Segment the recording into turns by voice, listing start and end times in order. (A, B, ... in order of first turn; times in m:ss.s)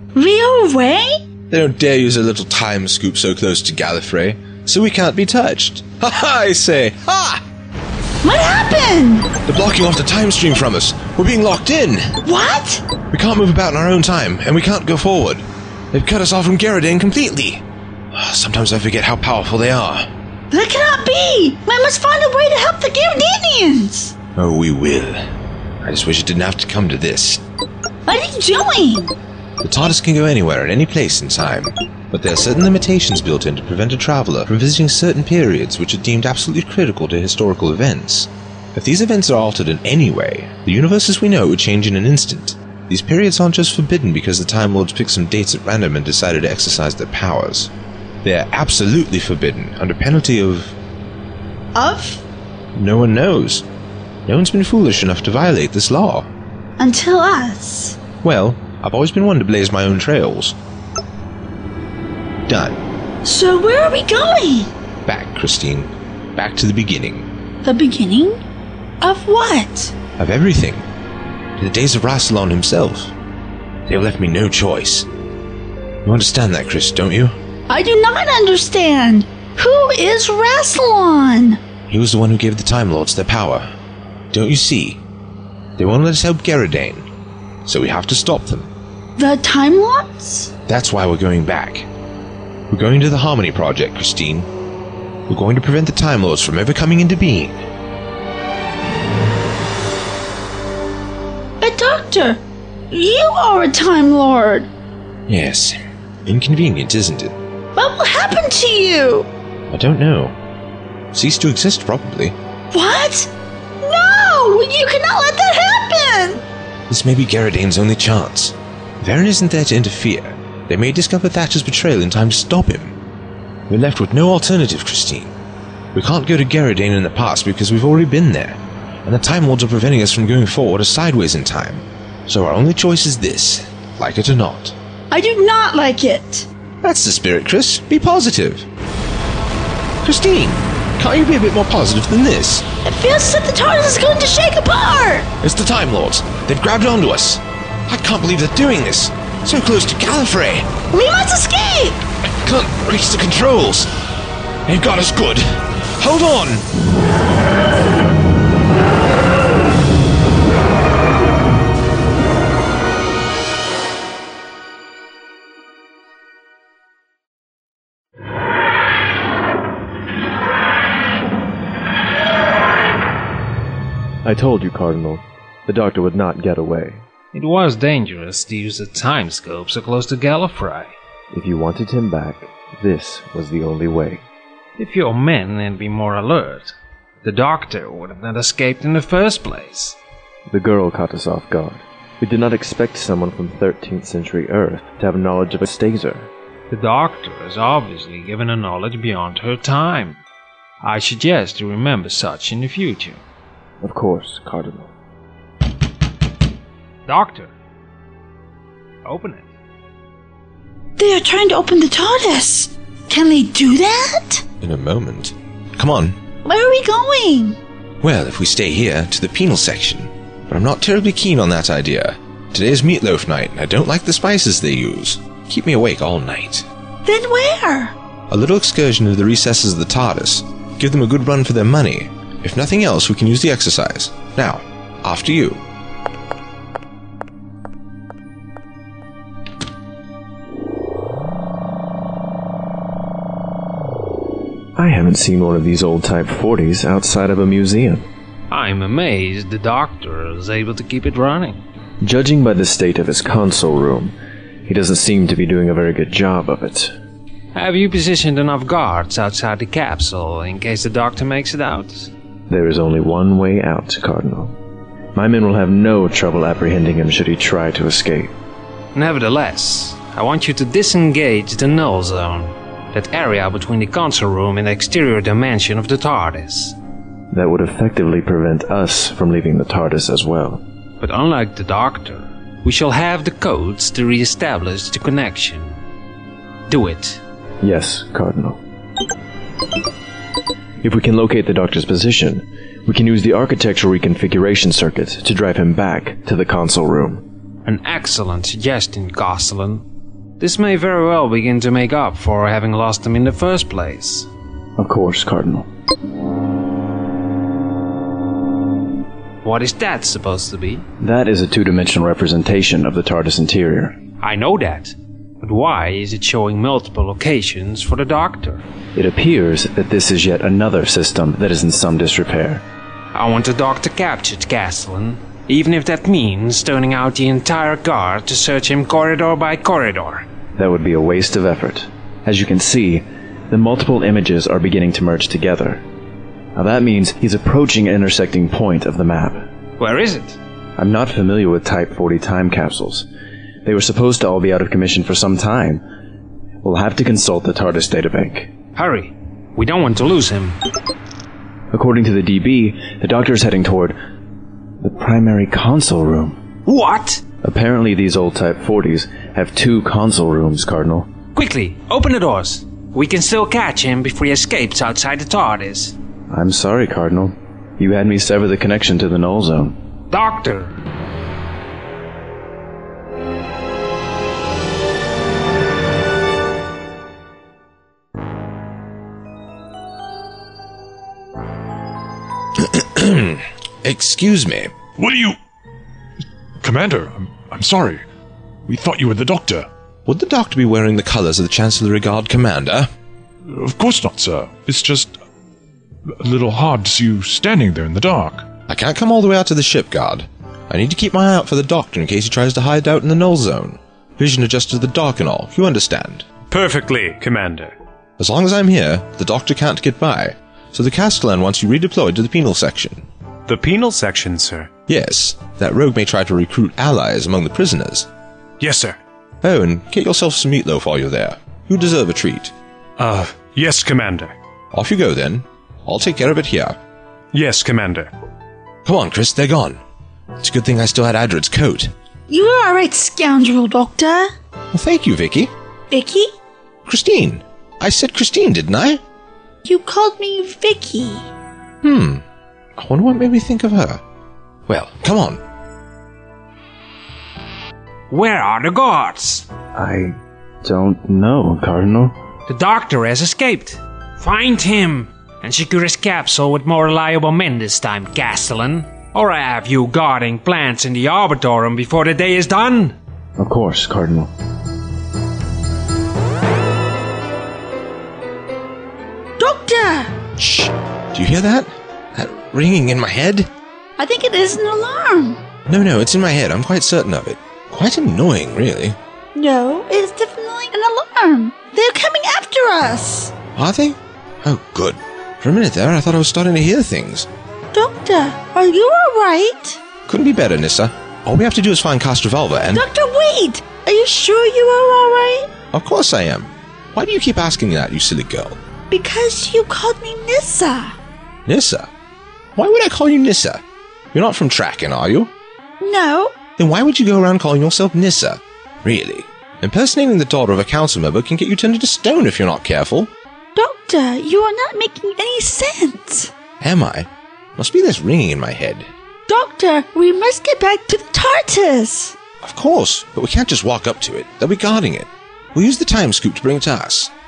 0:00.1-0:01.2 A
0:01.5-0:07.4 B
0:08.2-0:09.3 A
0:09.4-0:12.2 B
0:12.2-0:12.8 A
0:13.1-0:20.1 B
0:20.5-0:24.1 A
0:24.4-0:25.3 B
0:25.8-0:27.4 B
0:28.0-0:29.1 A
0:29.6-0:47.7 B
0:48.2-0:50.8 B
0:51.7-0:52.2 A
0:52.7-0:53.6 B
0:54.2-0:56.3 B
0:56.8-0:58.0 A
0:58.2-1:00.6 B
1:02.4-1:02.8 B
1:03.2-1:04.7 A
1:05.0-1:07.3 B
1:07.6-1:08.4 A
1:09.0-1:09.9 A
1:10.2-1:10.9 B
1:11.6-1:13.1 B
1:13.9-1:15.1 B
1:16.0-1:17.3 B
1:17.7-1:21.6 A
1:21.9-1:23.7 B
1:24.3-1:25.0 B
1:25.8-1:27.1 B
1:27.6-1:28.7 B
1:29.2-1:30.5 A
1:30.7-1:31.9 B
1:32.7-1:34.5 B
1:35.3-1:37.6 B
1:41.6-1:44.7 A
1:45.3-1:47.4 B
1:47.7-1:49.3 A
1:49.7-1:50.4 B
1:51.1-1:52.4 B
1:52.7-1:56.4 A
1:56.9-2:03.0 B
2:03.7-2:05.3 B
2:05.9-2:14.8 B
2:15.1-2:16.5 A
2:16.8-2:18.7 B
2:20.0-2:22.6 B
2:22.8-2:25.3 A
2:25.4-2:30.7 B
2:30.9-2:32.0 A
2:32.2-2:33.9 B
2:34.6-2:36.6 B
2:54.2-2:57.0 C
2:57.3-3:01.0 D
3:01.3-3:04.2 C
3:04.8-3:10.0 D
3:10.5-3:16.3 C
3:16.7-3:20.2 D
3:20.8-3:23.2 D
3:23.8-3:24.9 C
3:27.1-3:27.5 D
3:29.0-3:29.5 D
3:31.0-3:34.4 A
3:34.6-3:36.2 B
3:36.4-3:37.6 A
3:38.0-3:46.7 B
3:47.0-3:47.9 A
3:48.3-3:55.6 B
4:04.8-4:08.0 C
4:08.5-4:11.6 D
4:12.0-4:16.9 C
4:17.5-4:22.1 D
4:22.5-4:24.6 C
4:25.1-4:28.3 C
4:28.9-4:36.8 D
4:37.3-4:40.6 C
4:41.0-4:45.8 D
4:46.7-4:47.2 D
4:47.6-4:48.6 C
4:50.8-4:57.2 C
4:57.6-4:59.8 D
5:00.4-5:04.3 D
5:04.8-5:05.7 C
5:09.4-5:10.8 D
5:11.0-5:14.0 C
5:14.2-5:18.6 D
5:18.9-5:22.6 C
5:23.1-5:30.2 D
5:30.6-5:35.8 C
5:36.5-5:39.4 C
5:39.8-5:40.4 D
5:40.8-5:43.1 C
5:43.6-5:45.8 C
5:46.6-5:48.5 C
5:48.8-5:50.6 D
5:51.7-5:54.0 C
5:54.8-5:56.4 C
5:56.6-5:57.2 D
5:57.4-6:01.1 C
6:01.3-6:06.0 D
6:06.3-6:09.8 C
6:10.1-6:10.7 D
6:22.6-6:24.8 B
6:24.9-6:25.4 E
6:26.6-6:28.0 E
6:28.7-6:29.7 E
6:30.0-6:32.9 B
6:33.5-6:35.1 E
6:36.1-6:38.5 E
6:38.7-6:46.3 B
6:46.5-6:47.7 F
6:48.2-6:53.1 B
6:53.5-6:54.7 F
6:54.9-6:58.1 B
6:58.6-6:58.9 F
6:59.4-7:02.5 B
7:03.0-7:04.3 F
7:04.7-7:06.8 B
7:07.3-7:08.1 F
7:08.8-7:09.8 B
7:10.4-7:11.9 B
7:12.3-7:14.3 A
7:14.7-7:15.5 B
7:15.9-7:16.3 A
7:16.8-7:19.0 B
7:19.6-7:21.3 A
7:21.8-7:22.2 B
7:22.8-7:24.0 B
7:24.7-7:25.4 B
7:28.1-7:29.5 D
7:29.7-7:32.2 C
7:32.5-7:43.0 D
7:43.4-7:44.3 C
7:49.4-7:50.1 A
7:50.4-7:53.5 B
7:54.0-7:55.4 A
7:55.7-7:59.0 B
7:59.3-8:03.3 A
8:03.5-8:07.3 B
8:07.7-8:09.8 A
8:10.1-8:12.8 B
8:12.7-8:15.5 A
8:15.7-8:18.6 B
8:18.9-8:21.0 A
8:21.5-8:21.9 B
8:22.5-8:23.6 B
8:24.1-8:25.3 B
8:25.8-8:26.4 A
8:26.6-8:33.1 B
8:33.5-8:36.3 A
8:36.6-8:38.9 B
8:39.3-8:42.1 A
8:42.4-8:47.1 B